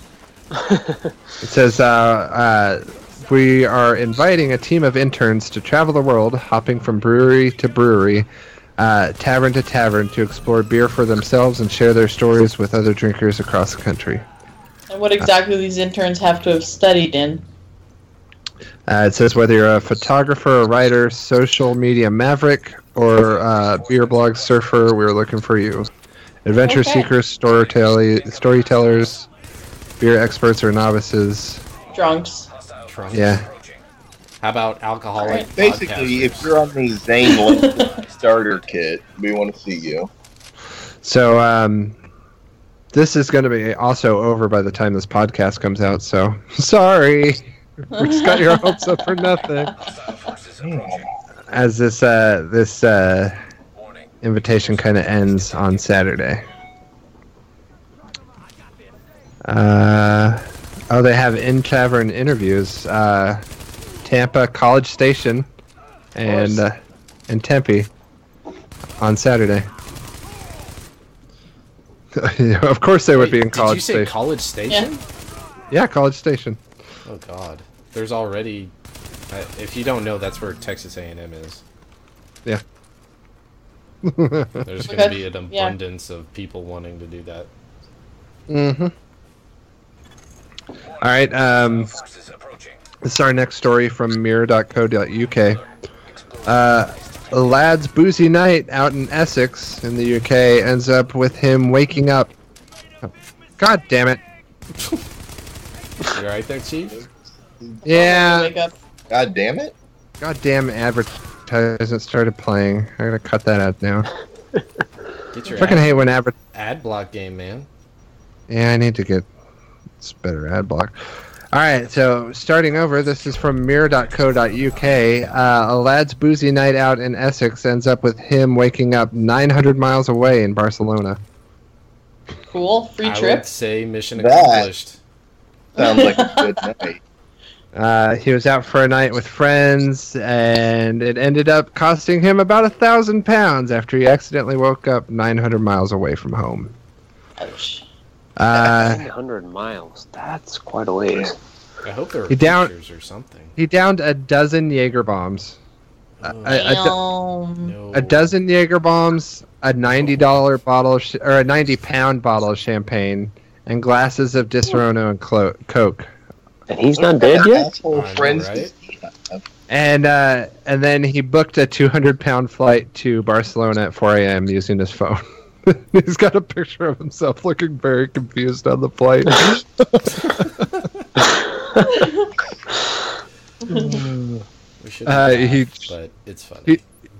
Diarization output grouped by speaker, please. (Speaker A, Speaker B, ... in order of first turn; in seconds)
Speaker A: 0.6-1.0, 148.6-151.3, 166.7-167.7
Speaker B: 1.4-8.2, 8.8-14.2, 18.9-25.9, 26.4-29.3, 30.0-31.6, 33.1-33.5, 41.0-42.0, 42.9-49.8, 51.5-53.3, 54.2-56.4, 59.4-63.4, 64.0-65.5, 66.1-66.7, 67.3-67.9, 69.0-69.7, 72.1-74.1, 75.7-76.6, 84.0-84.7, 88.5-88.9, 91.0-91.9, 93.0-95.6, 96.4-102.3, 103.0-104.2, 107.8-108.5, 110.2-114.1, 115.6-116.3, 118.5-119.3, 120.0-120.9, 121.5-131.2, 137.7-146.7, 148.4-149.1, 152.3-152.7, 153.6-155.6, 156.2-156.9, 157.9-166.1, 169.7-180.6, 183.8-184.2, 185.1-185.9
Speaker C: 14.9-17.4, 26.6-27.1, 31.9-32.5, 35.2-35.5, 37.3-37.9, 47.9-49.2, 84.8-85.7, 107.8-108.7, 132.5-133.5, 135.8-136.7, 147.4-147.8, 156.5-157.7, 181.8-182.3, 183.7-184.0
Speaker D: 32.9-33.4, 34.4-36.5, 66.3-66.6, 73.1-75.0, 77.0-78.7, 79.3-81.6, 84.6-87.5, 106.0-107.0, 115.3-117.7, 133.0-135.0, 151.8-153.5, 156.2-156.8, 157.6-158.3, 167.9-168.7, 184.8-186.8
Speaker E: 35.5-40.1, 50.6-51.0, 106.9-107.8, 109.1-109.7, 134.2-134.7, 135.8-137.0, 166.9-169.4